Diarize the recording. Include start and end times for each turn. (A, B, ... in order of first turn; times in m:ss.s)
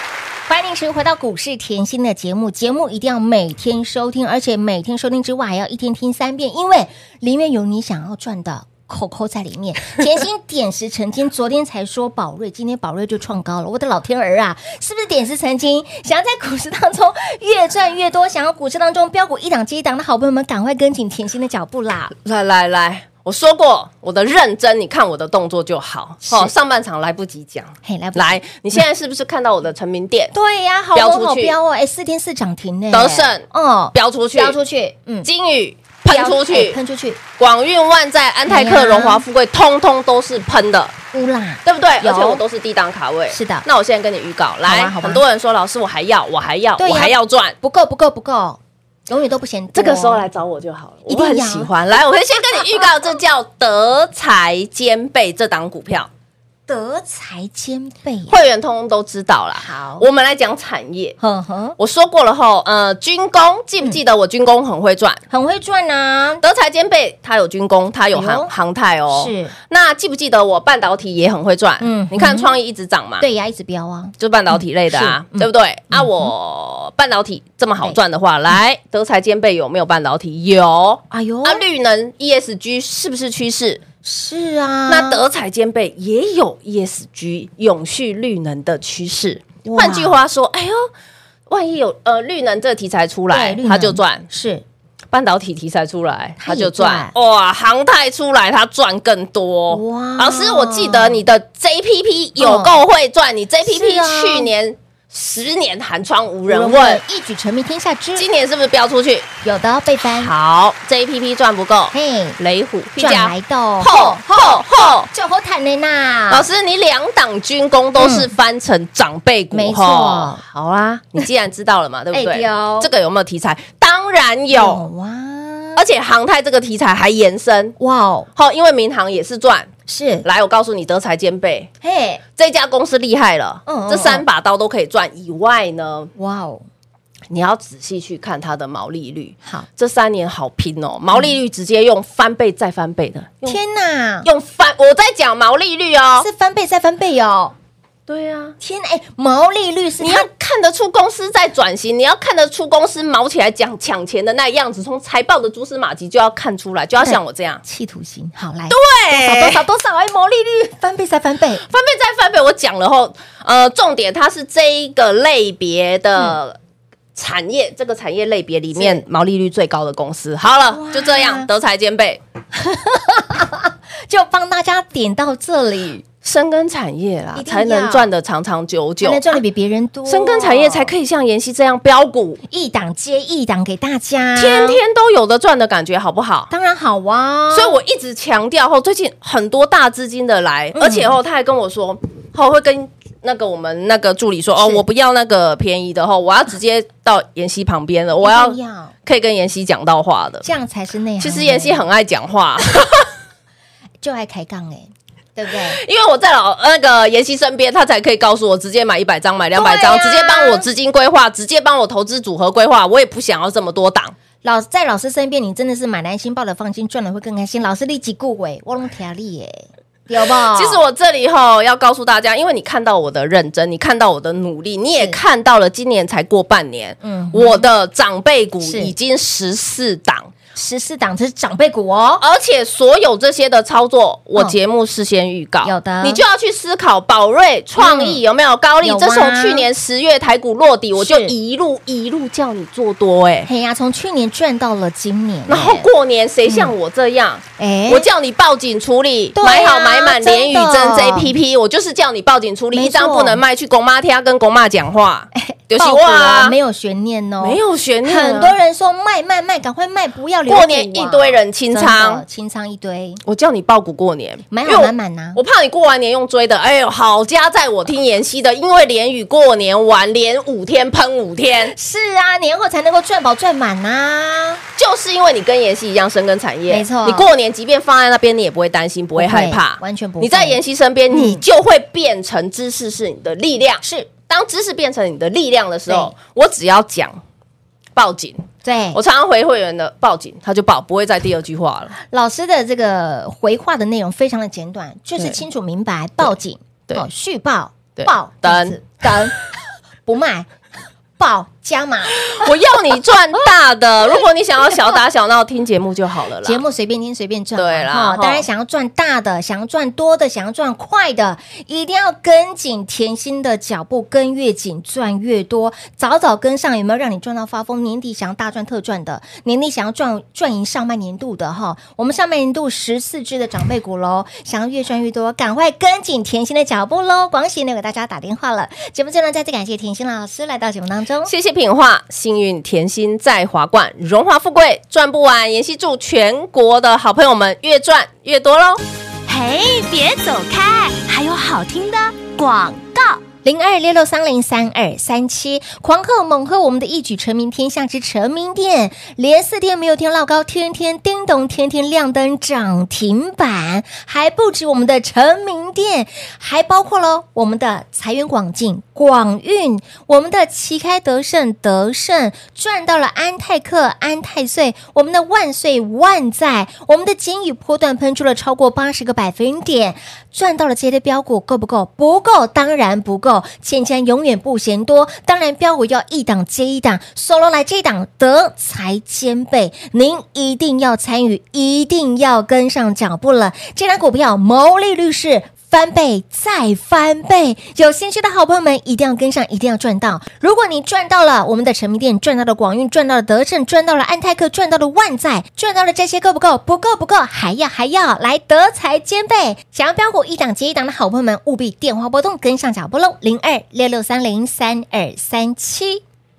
0:00.5-0:22.1 A
0:22.2-0:30.3 B
0:26.2-0:26.5 A
0:27.8-0:28.4 A
0:30.3-0:35.3 A
0:31.0-0:31.6 B
0:32.9-0:34.6 B
0:35.2-0:36.8 B
0:36.1-0:37.2 A
0:37.4-0:41.0 B
0:38.5-0:39.2 A
0:41.1-0:42.4 A
0:41.6-0:47.6 B
0:43.3-0:43.7 A
0:44.7-0:45.2 A
0:46.8-0:50.3 A
0:49.7-0:56.1 B
0:51.1-0:51.7 A
0:56.7-0:58.4 A
0:58.3-1:01.2 B
0:59.6-1:00.0 A
1:01.2-1:01.8 A
1:01.8-1:05.2 B
1:05.3-1:06.4 A
1:06.4-1:13.3 B
1:08.1-1:08.5 A
1:09.1-1:09.5 A
1:11.8-1:12.5 A
1:13.2-1:16.3 A
1:14.2-1:23.8 B
1:21.1-1:21.6 A
1:24.0-1:25.2 A
1:24.9-1:30.9 B
1:29.6-1:30.2 A
1:31.5-1:34.3 B
1:33.3-1:34.6 A
1:35.1-1:47.0 B
1:36.4-1:37.1 A
1:39.7-1:41.2 A
1:42.4-1:42.8 A
1:43.6-1:44.5 A
1:46.5-1:48.3 A
1:48.2-1:49.3 B
1:49.4-1:50.3 A
1:50.2-1:55.1 B
1:51.9-1:52.4 A
1:53.0-1:54.6 A
1:55.1-1:56.4 A
1:56.3-2:04.8 B
1:58.0-1:58.3 A
1:59.5-2:00.4 A
2:02.1-2:02.9 A
2:04.5-2:05.8 A
2:05.8-2:07.8 B
2:07.8-2:08.3 A
2:08.4-2:09.7 B
2:09.9-2:10.2 A
2:10.2-2:11.7 B
2:11.8-2:12.2 A
2:12.4-2:16.1 B
2:13.7-2:14.2 A
2:16.2-2:16.7 A
2:17.3-2:23.6 B
2:23.5-2:24.3 A
2:24.2-2:26.3 B
2:26.2-2:27.5 A
2:28.1-2:28.6 B
2:28.6-2:30.3 A
2:30.0-2:37.6 B
2:37.0-2:41.6 A
2:38.7-2:39.6 B
2:41.7-2:46.6 B
2:47.2-2:52.2 B
2:48.8-2:49.0 A
2:50.7-2:51.5 A
2:52.6-2:56.0 A
2:56.2-2:59.4 B
2:57.4-2:58.1 A
2:59.0-3:00.9 A
3:00.1-3:02.4 B
3:02.5-3:04.8 A
3:04.4-3:06.5 B
3:06.5-3:07.8 A
3:07.5-3:20.5 B
3:10.8-3:11.2 A
3:14.6-3:14.8 A
3:18.2-3:18.9 A
3:20.4-3:21.8 A
3:21.2-3:23.1 B
3:24.0-3:25.8 A
3:25.7-3:34.2 B
3:29.6-3:30.7 A
3:34.4-3:40.8 A
3:40.5-3:50.3 B
3:47.0-3:47.7 A
3:48.6-3:48.9 A
3:50.6-3:52.2 A
3:52.2-4:03.5 B
3:55.6-3:56.2 A
3:57.8-3:58.2 A
3:58.8-3:59.7 A
4:01.0-4:01.3 A
4:03.5-4:05.9 A
4:05.5-4:16.6 B
4:06.5-4:06.7 A
4:07.6-4:08.1 A
4:09.4-4:11.3 A
4:12.7-4:13.4 A
4:15.4-4:23.2 A
4:17.4-4:18.6 B
4:20.5-4:22.2 B
4:23.3-4:31.7 B
4:24.5-4:25.4 A
4:31.7-4:34.6 A
4:34.8-4:47.2 B
4:36.7-4:37.3 A
4:39.2-4:40.6 A
4:41.1-4:41.4 A
4:43.8-4:44.1 A
4:45.9-4:46.1 A
4:48.0-4:48.4 B
4:48.6-4:49.0 A
4:48.9-4:52.0 B
4:52.1-4:59.4 A
4:58.0-4:58.8 B
5:00.1-5:00.5 A
5:01.2-5:02.4 A
5:02.2-5:06.6 B
5:06.4-5:31.3 A
5:07.6-5:08.5 B
5:31.3-5:38.8 B
5:39.3-5:42.8 C
5:40.9-5:42.8 B
5:43.4-6:46.0 A